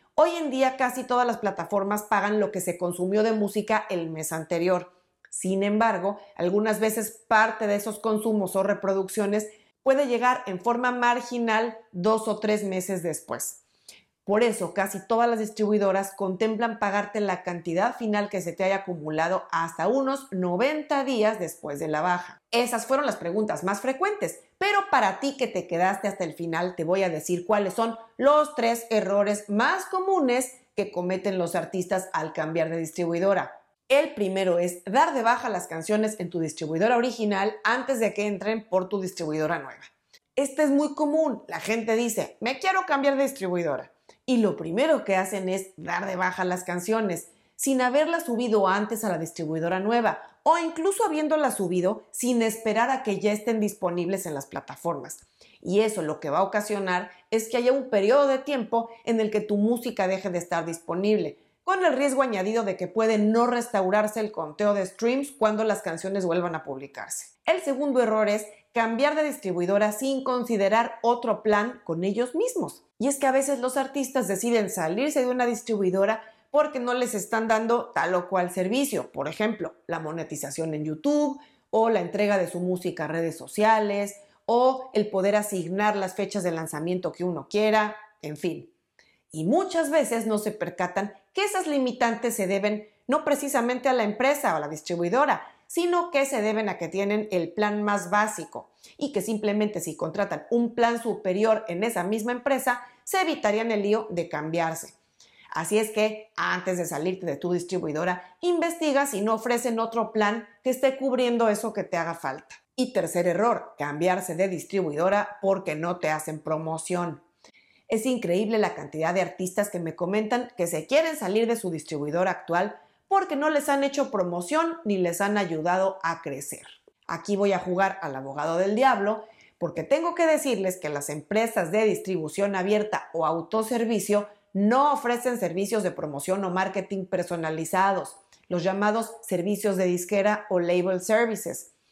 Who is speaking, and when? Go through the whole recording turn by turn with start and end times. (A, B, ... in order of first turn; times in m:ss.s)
0:00.2-0:13.6 A
0:14.2-1:28.7 A
1:29.3-1:45.0 A
1:45.5-1:57.2 A
1:57.9-2:21.7 A